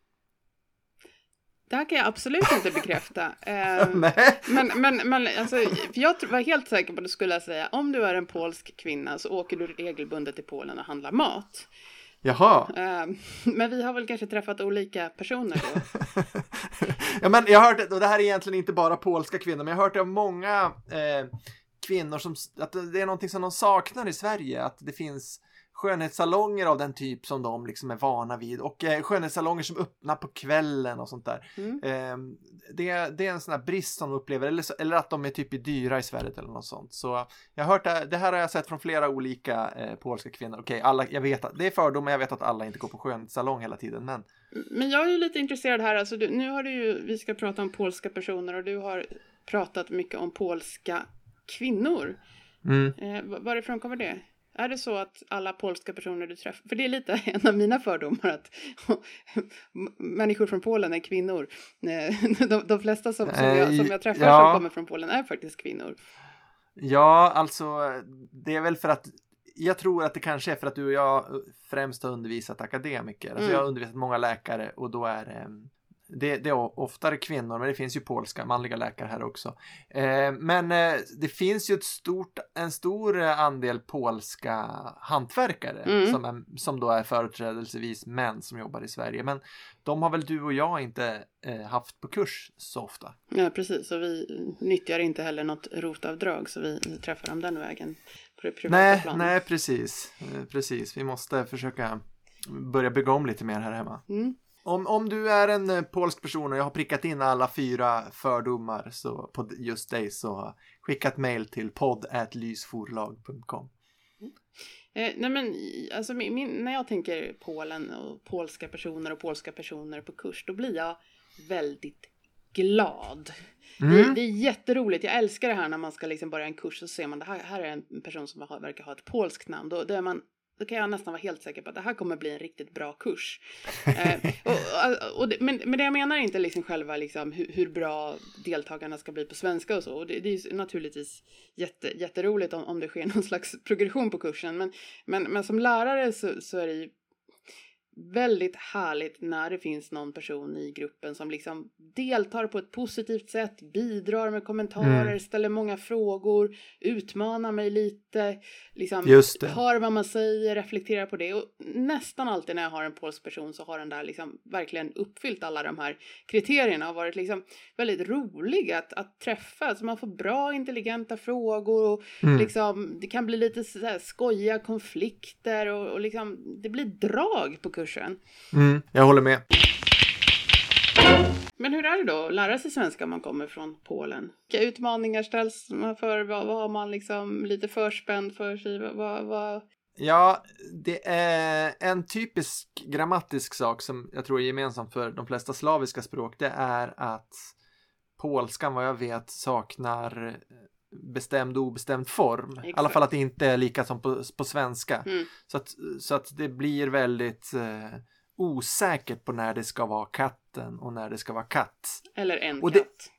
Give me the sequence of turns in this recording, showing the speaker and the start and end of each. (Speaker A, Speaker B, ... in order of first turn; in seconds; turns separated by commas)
Speaker A: 1.7-11.7, Speaker B: 3.8-4.8, Speaker B: 12.2-12.7, Speaker A: 12.7-15.9, Speaker B: 16.0-44.3, Speaker A: 44.5-52.2, Speaker B: 52.6-53.0, Speaker A: 53.0-66.0, Speaker B: 63.3-64.6, Speaker B: 66.8-93.2, Speaker A: 73.4-73.6, Speaker A: 85.9-86.2, Speaker A: 93.3-99.3, Speaker B: 98.7-104.0, Speaker A: 104.1-104.4, Speaker B: 104.6-113.7, Speaker A: 114.9-146.9, Speaker B: 123.8-124.2, Speaker A: 147.9-178.2, Speaker B: 154.8-155.1, Speaker B: 159.1-159.6, Speaker B: 172.2-172.5, Speaker B: 178.5-179.4, Speaker A: 181.6-189.6, Speaker B: 190.0-197.5, Speaker B: 198.2-212.1, Speaker A: 202.7-203.0, Speaker A: 212.2-213.1